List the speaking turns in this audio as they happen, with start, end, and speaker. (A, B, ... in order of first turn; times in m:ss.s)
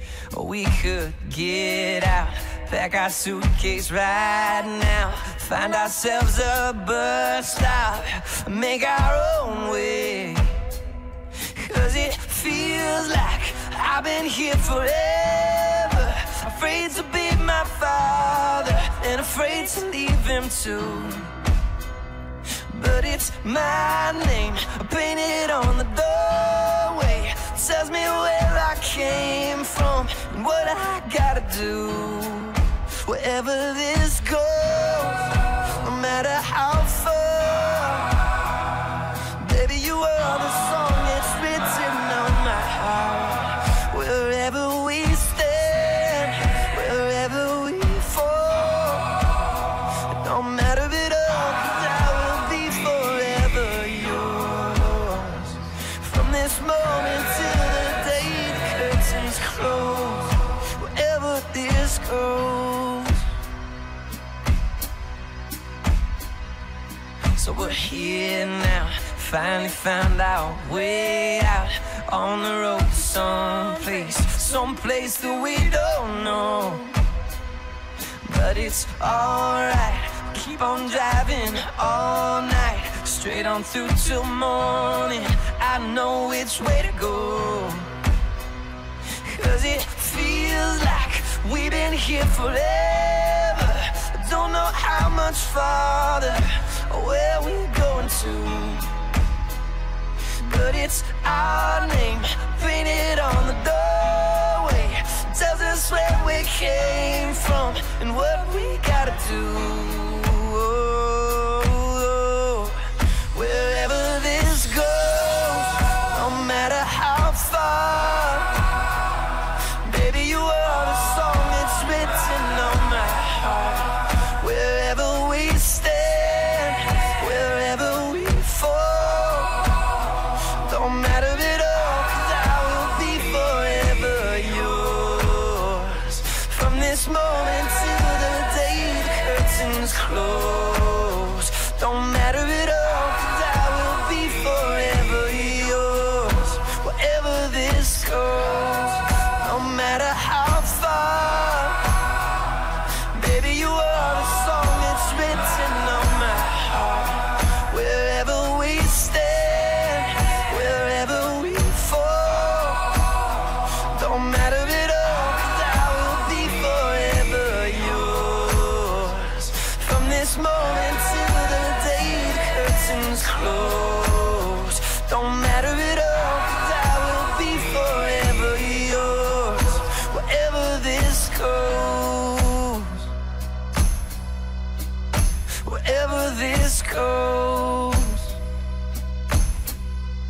0:00.3-0:10.6 A
0:11.5-0:21.3 A
0:22.7-0:38.2 A
0:39.4-0:49.1 A
0:50.1-1:03.2 A
1:07.4-1:16.9 A
1:18.2-1:27.9 A
1:29.2-1:38.9 A
1:40.4-1:52.8 A
1:53.3-1:58.6 A
1:59.8-2:09.7 A
2:10.6-2:32.0 A
2:33.1-2:43.2 A
2:43.9-3:03.0 A
3:05.6-3:08.4 A